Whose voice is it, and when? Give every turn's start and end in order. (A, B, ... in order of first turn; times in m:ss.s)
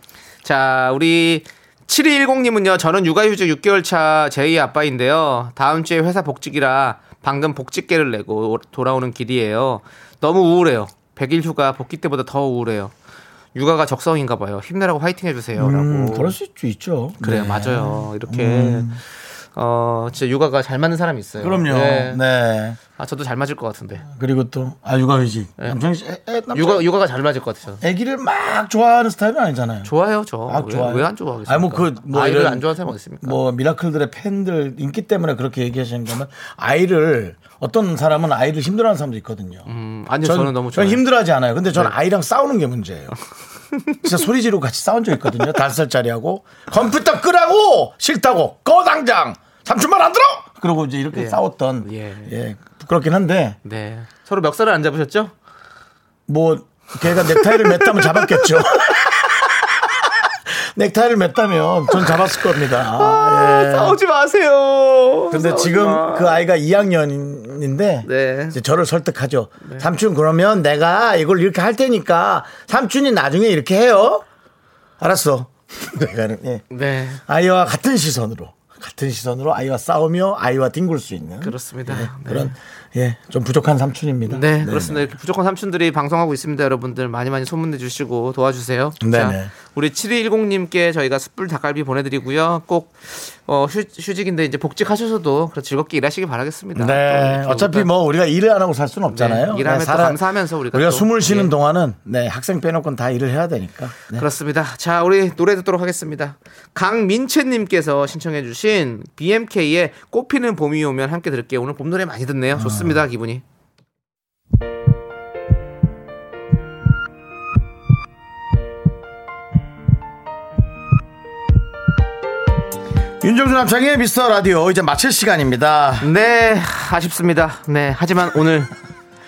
0:00.4-0:12.9 A
0:13.5-0:16.4 A
0:15.6-0:19.0 B
0:17.2-0:19.0 A
0:19.5-0:22.2 A
0:21.4-0:22.8 B
0:23.0-0:24.0 A
0:24.0-0:26.8 B
0:26.5-0:27.8 A
0:27.8-0:29.9 B
0:29.8-0:33.4 A
0:30.5-0:32.7 B
0:33.2-0:39.6 B
0:39.6-0:41.0 A
0:40.2-0:43.1 B
0:44.0-0:53.6 B
0:51.1-0:52.3 A
0:53.6-0:55.3 A
0:56.3-1:04.0 B
0:57.1-0:58.9 A
1:02.8-1:06.4 A
1:05.3-1:14.2 B
1:08.0-1:08.6 A
1:09.6-1:09.9 A
1:15.0-1:16.6 B
1:16.7-1:17.2 A
1:17.2-1:25.1 B
1:21.4-1:22.5 A
1:24.3-1:37.9 A
1:29.0-1:29.5 B
1:36.7-1:44.2 B
1:39.1-1:41.5 A
1:44.1-1:53.4 A
1:52.6-1:53.0 B
2:03.2-2:06.1 B
2:06.0-2:08.7 A